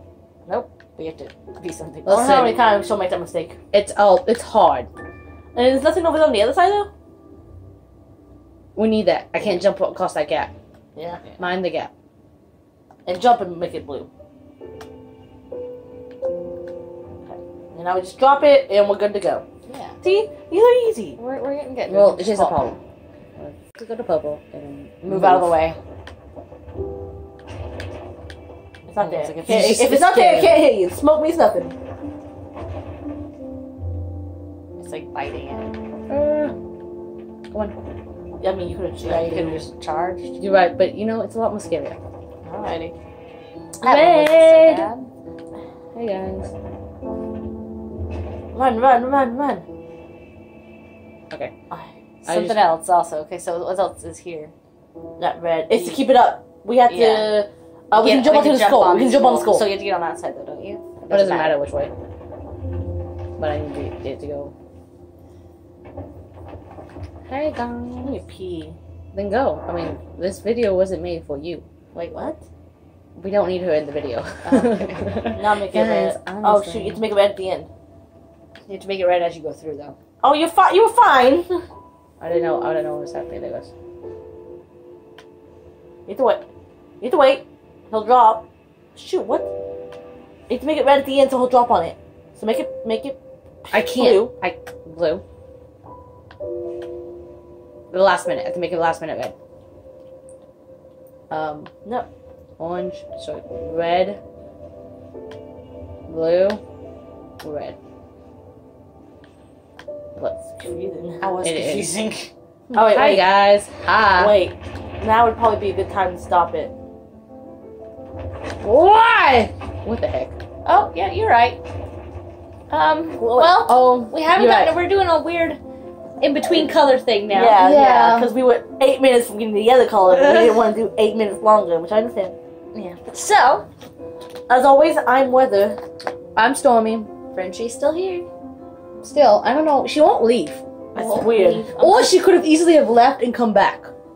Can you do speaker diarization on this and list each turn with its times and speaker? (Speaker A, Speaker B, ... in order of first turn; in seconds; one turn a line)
Speaker A: 0.5-2.4
Speaker B: 2.0-2.6
Speaker C: 2.1-3.6
Speaker B: 3.7-4.9
Speaker C: 5.5-6.9
Speaker B: 8.8-10.5
Speaker C: 10.9-11.2
Speaker B: 11.4-11.9
Speaker C: 13.1-14.1
Speaker C: 17.2-19.4
Speaker A: 19.6-20.0
Speaker C: 20.0-21.2
Speaker A: 21.2-22.7
Speaker B: 21.9-22.8
Speaker B: 23.4-25.6
Speaker A: 25.0-25.8
Speaker C: 28.9-31.7
Speaker A: 28.9-29.8
Speaker B: 29.4-30.6
Speaker A: 34.8-35.7
Speaker B: 36.1-36.5
Speaker B: 37.5-37.8
Speaker C: 38.4-39.6
Speaker A: 39.0-40.4
Speaker B: 40.4-42.0
Speaker A: 42.5-42.9
Speaker B: 43.8-44.9
Speaker A: 43.8-45.1
Speaker B: 45.9-46.5
Speaker C: 48.5-49.6
Speaker A: 52.2-54.5
Speaker B: 52.2-52.6
Speaker C: 55.2-59.7
Speaker A: 55.7-56.1
Speaker A: 56.9-57.4
Speaker A: 57.9-61.6
Speaker B: 61.1-61.9
Speaker B: 63.4-64.5
Speaker B: 67.3-68.2
Speaker C: 68.0-68.8
Speaker B: 69.1-71.6
Speaker A: 71.9-72.3
Speaker C: 72.1-72.4
Speaker B: 73.2-77.0
Speaker A: 74.4-75.1
Speaker C: 75.3-77.7
Speaker A: 78.7-80.0
Speaker C: 80.2-81.6
Speaker B: 82.2-83.7
Speaker C: 86.1-86.5
Speaker C: 87.0-89.5
Speaker C: 90.5-94.3
Speaker B: 93.7-95.2
Speaker B: 97.9-99.3
Speaker B: 101.3-101.7
Speaker B: 102.6-104.2
Speaker B: 106.1-106.6
Speaker B: 107.4-107.8
Speaker B: 110.2-110.4
Speaker C: 110.6-111.3
Speaker A: 111.2-112.3
Speaker B: 111.4-112.0
Speaker B: 112.7-114.4
Speaker C: 112.7-113.3
Speaker C: 114.1-116.7
Speaker B: 118.6-120.3
Speaker A: 120.6-121.6
Speaker A: 122.7-125.6
Speaker C: 123.2-123.6
Speaker B: 123.6-124.8
Speaker A: 126.2-127.7
Speaker C: 127.3-132.3
Speaker B: 127.5-128.3
Speaker A: 132.7-133.7
Speaker C: 134.5-135.8
Speaker B: 136.3-137.1
Speaker A: 137.3-138.3
Speaker B: 139.0-140.6
Speaker C: 140.9-141.7
Speaker A: 140.9-142.2
Speaker B: 141.8-143.9